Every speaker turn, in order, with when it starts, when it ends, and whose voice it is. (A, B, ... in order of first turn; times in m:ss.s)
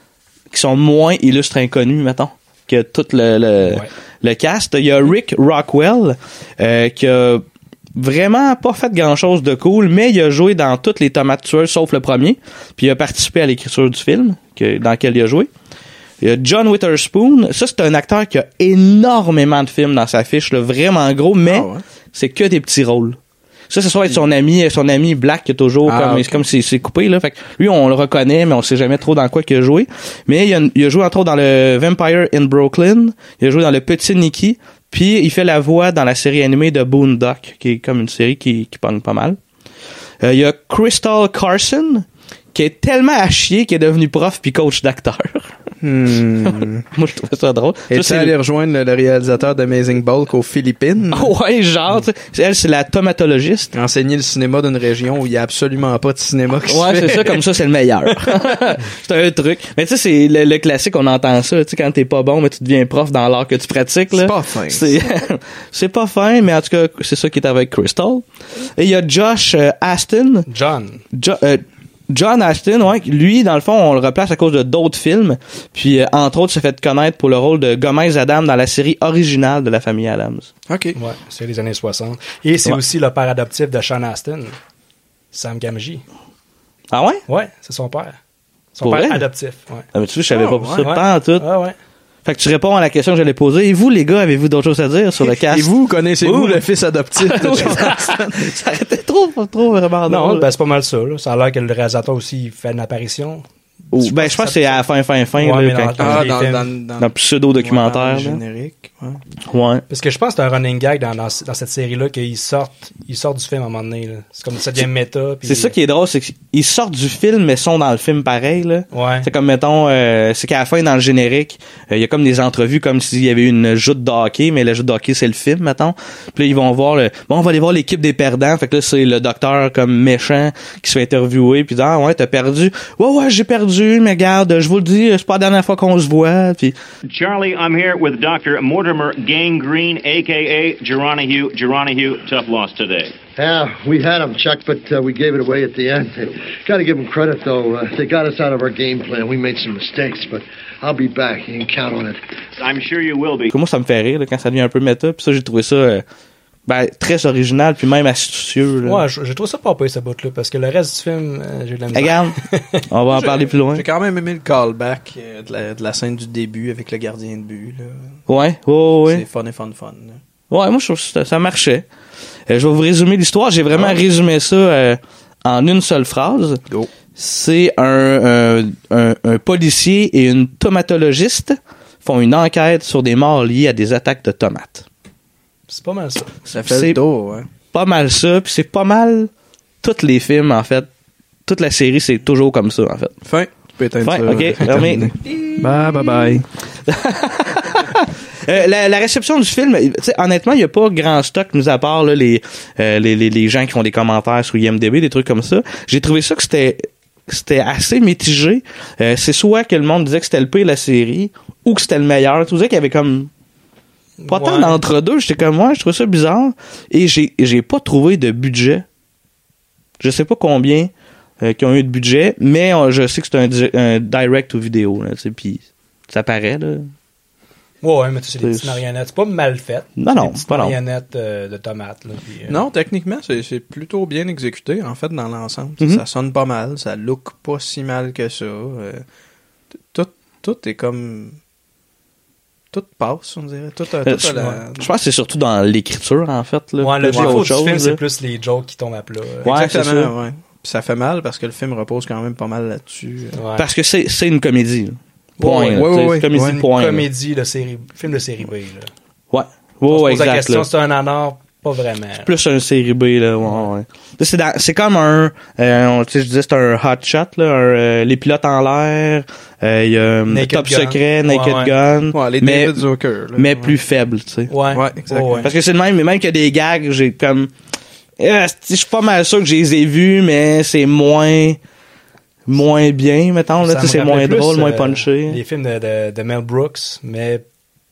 0:00.5-0:15.5 A
0:03.6-0:03.9 B
0:16.2-0:23.2 A
0:21.4-0:21.8 C
0:23.7-0:39.4 A
0:25.8-0:26.4 C
0:40.2-0:45.5 A
0:45.8-0:46.9 C
0:46.9-0:48.4 A
0:47.9-0:51.3 C
0:51.1-0:53.7 A
0:53.7-0:57.4 C
0:56.7-1:10.5 A
1:04.1-1:05.0 C
1:10.5-1:11.0 B
1:11.1-1:20.5 A
1:20.7-1:21.0 C
1:21.0-1:24.6 B
1:25.3-1:26.0 B
1:26.9-1:27.2 A
1:27.3-1:28.2 B
1:28.7-1:29.9 B
1:28.8-1:29.2 A
1:29.9-1:31.4 A
1:30.3-1:30.9 C
1:30.8-1:31.8 B
1:32.2-1:35.7 A
1:35.2-1:38.5 C
1:36.2-1:36.6 A
1:37.2-1:40.5 A
1:40.1-1:44.8 B
1:43.9-1:46.3 A
1:45.4-1:46.7 B
1:46.0-1:49.2 C
1:47.0-1:48.4 A
1:49.4-1:49.8 A
1:49.9-1:55.8 B
1:55.4-2:16.8 A
1:58.9-1:59.3 B
2:17.1-2:23.2 D
2:23.4-2:32.2 E
2:32.6-2:33.5 D
2:33.5-2:36.0 A
2:36.7-2:39.0 A
2:38.8-2:42.8 B
2:41.9-2:42.4 A
2:42.9-2:43.8 A
2:43.1-2:48.2 C
2:48.3-2:49.2 A
2:49.1-2:50.2 C
2:50.5-2:51.8 A
2:52.5-2:56.6 A
2:53.7-2:54.0 C
2:57.2-3:04.8 A
3:05.7-3:06.4 B
3:06.5-3:07.0 A
3:06.5-3:07.5 C
3:07.7-3:09.3 A
3:09.8-3:10.9 A
3:11.5-3:13.2 A
3:13.2-3:16.5 C
3:14.0-3:15.5 A
3:16.9-3:33.3 A
3:34.2-3:34.8 B
3:34.3-3:38.8 A
3:40.0-3:46.9 A
3:47.8-3:52.6 B
3:48.4-3:48.8 A
3:50.0-3:50.8 A
3:52.5-3:59.0 C
3:59.9-4:01.4 C
4:02.7-4:04.9 C
4:04.0-4:08.0 A
4:06.8-4:09.6 B
4:07.1-4:07.6 C
4:09.4-4:10.1 A
4:09.4-4:13.4 C
4:13.4-4:13.7 B
4:13.6-4:17.1 A
4:15.4-4:16.6 C
4:16.3-4:18.9 B
4:19.3-4:20.7 A
4:19.9-4:22.3 B
4:22.2-4:32.8 A
4:30.3-4:31.8 B
4:32.1-4:33.8 C
4:33.4-4:34.5 A
4:34.5-4:35.5 B
4:34.7-4:35.5 C
4:35.4-4:37.5 A
4:38.2-4:41.6 A
4:42.5-4:45.4 A
4:43.6-4:47.4 B